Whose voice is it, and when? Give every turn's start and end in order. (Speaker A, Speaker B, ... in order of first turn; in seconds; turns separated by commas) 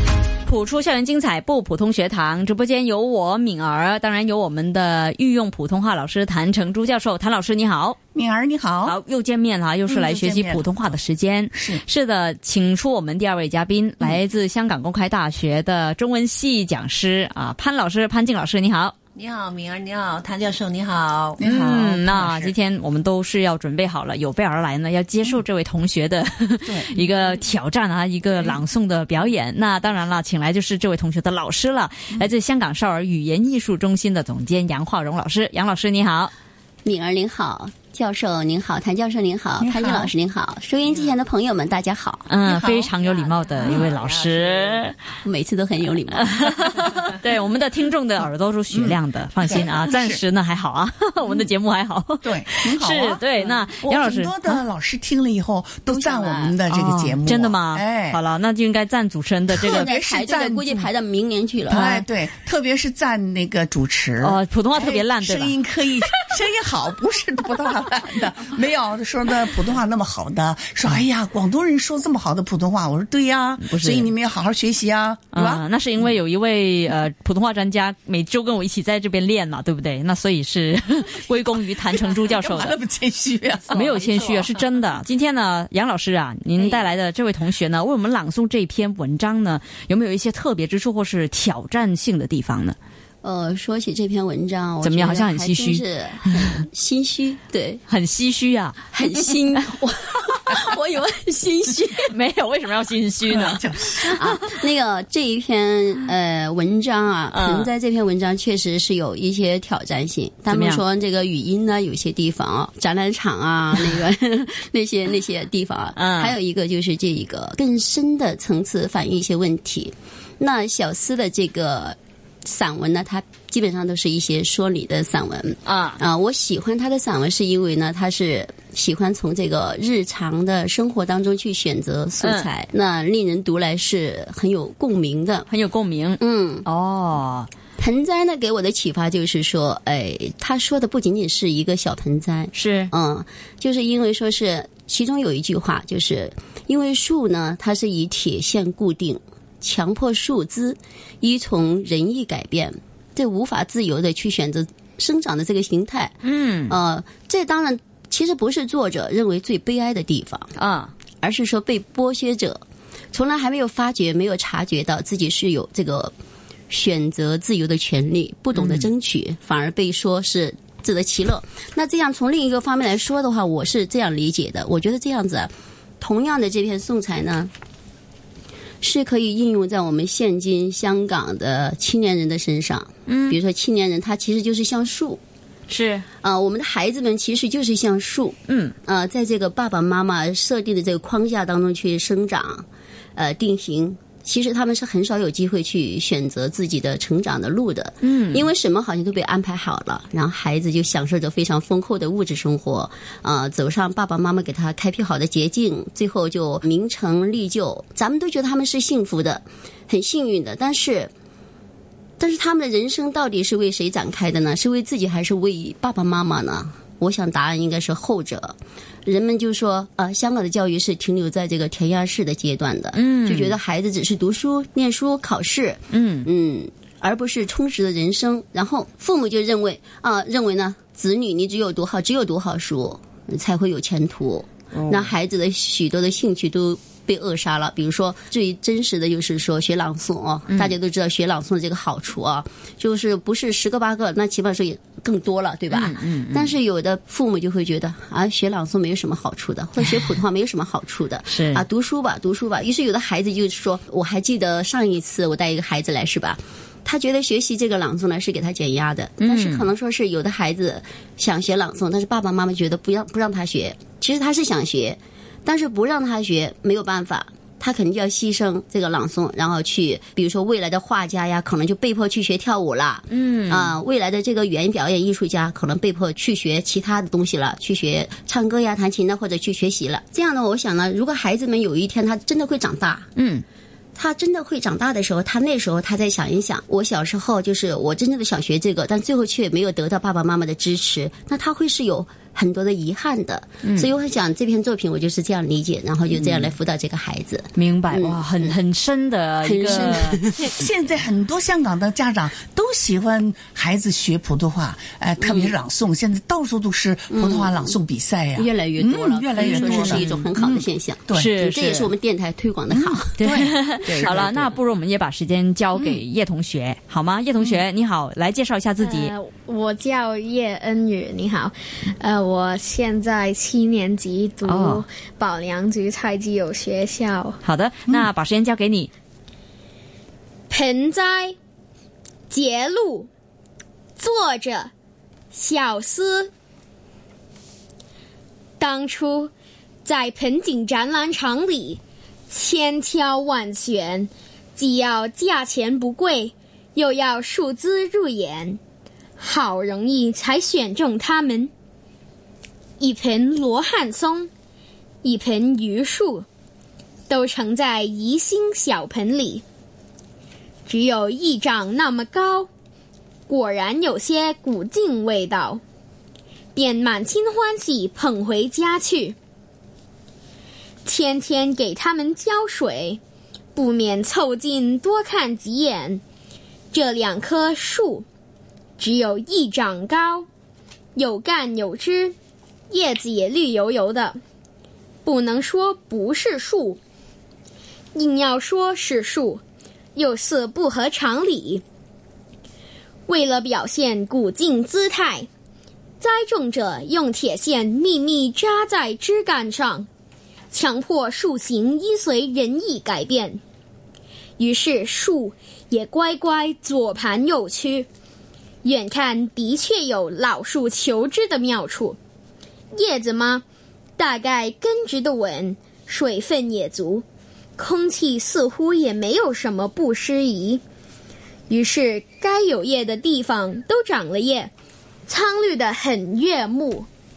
Speaker A: 0.5-8.0, Speaker B: 8.1-9.0, Speaker A: 8.8-19.0, Speaker B: 9.9-11.0, Speaker B: 11.6-11.8, Speaker C: 19.2-21.4, Speaker B: 21.4-22.5, Speaker A: 21.4-36.3, Speaker D: 36.8-42.3, Speaker B: 39.6-40.1, Speaker A: 42.3-45.0, Speaker B: 42.5-42.9, Speaker C: 43.0-44.9, Speaker D: 45.2-46.3, Speaker A: 46.1-54.6, Speaker B: 48.7-50.2, Speaker B: 52.2-58.2, Speaker D: 55.9-56.6, Speaker A: 56.7-59.9, Speaker B: 59.5-60.9, Speaker D: 59.6-62.0, Speaker B: 61.7-75.7, Speaker A: 64.2-65.6, Speaker A: 73.6-74.1, Speaker A: 75.3-82.8, Speaker B: 81.9-84.0, Speaker A: 83.7-92.8, Speaker C: 83.7-84.5, Speaker D: 86.6-86.9, Speaker D: 93.2-97.8, Speaker A: 94.8-95.8, Speaker A: 97.9-99.6, Speaker D: 98.9-102.1, Speaker A: 102.1-104.4, Speaker B: 103.3-104.1, Speaker D: 104.0-135.5, Speaker A: 107.3-107.7, Speaker A: 110.5-110.8, Speaker A: 116.0-116.4, Speaker A: 125.7-126.0, Speaker A: 132.2-132.5, Speaker A: 135.5-137.5, Speaker D: 136.2-136.7, Speaker D: 137.8-160.5, Speaker A: 142.5-142.9, Speaker A: 156.2-156.8, Speaker A: 160.6-160.9, Speaker D: 161.2-162.6, Speaker D: 163.1-166.1, Speaker D: 166.7-177.5, Speaker A: 168.6-168.9, Speaker D: 178.8-185.2, Speaker A: 183.1-183.4, Speaker A: 185.7-186.1, Speaker D: 186.2-192.7, Speaker A: 188.5-188.8, Speaker D: 193.2-211.1, Speaker A: 198.0-198.5, Speaker D: 212.2-283.1, Speaker A: 222.9-223.6, Speaker A: 225.9-226.3, Speaker C: 234.7-235.1, Speaker A: 245.7-246.5, Speaker A: 251.3-251.6, Speaker A: 259.2-259.7, Speaker A: 273.1-273.7, Speaker A: 283.2-283.4, Speaker D: 283.9-298.6, Speaker A: 293.6-293.9, Speaker A: 296.1-296.5, Speaker A: 297.6-300.2, Speaker D: 299.4-300.6, Speaker B: 300.6-311.3, Speaker D: 305.2-305.5, Speaker D: 307.1-307.8, Speaker D: 308.4-313.1, Speaker A: 309.4-310.2, Speaker A: 311.1-311.9, Speaker B: 312.7-313.5, Speaker A: 313.2-319.1, Speaker C: 313.9-314.5, Speaker E: 318.8-327.4, Speaker A: 324.5-324.8, Speaker A: 327.4-328.9, Speaker E: 330.5-331.4, Speaker E: 332.3-333.1, Speaker E: 334.0-334.7, Speaker E: 335.3-336.3, Speaker E: 338.6-339.3, Speaker E: 339.9-348.6, Speaker E: 349.2-351.5, Speaker E: 352.8-354.3, Speaker E: 355.0-356.3, Speaker E: 357.1-359.4, Speaker E: 360.7-362.5, Speaker E: 363.3-365.6, Speaker E: 366.6-369.1, Speaker E: 370.9-373.0, Speaker E: 373.6-376.0, Speaker E: 376.7-378.1, Speaker E: 378.8-380.3, Speaker E: 381.0-382.2, Speaker E: 382.7-384.2, Speaker E: 385.1-386.8, Speaker E: 387.9-389.4, Speaker E: 389.9-391.6, Speaker E: 393.1-395.3, Speaker E: 396.0-399.9, Speaker E: 400.5-403.4, Speaker E: 404.4-407.9, Speaker E: 408.6-412.0, Speaker E: 412.7-413.4, Speaker E: 414.0-417.1, Speaker E: 417.6-420.6, Speaker E: 421.5-424.5, Speaker E: 425.1-426.9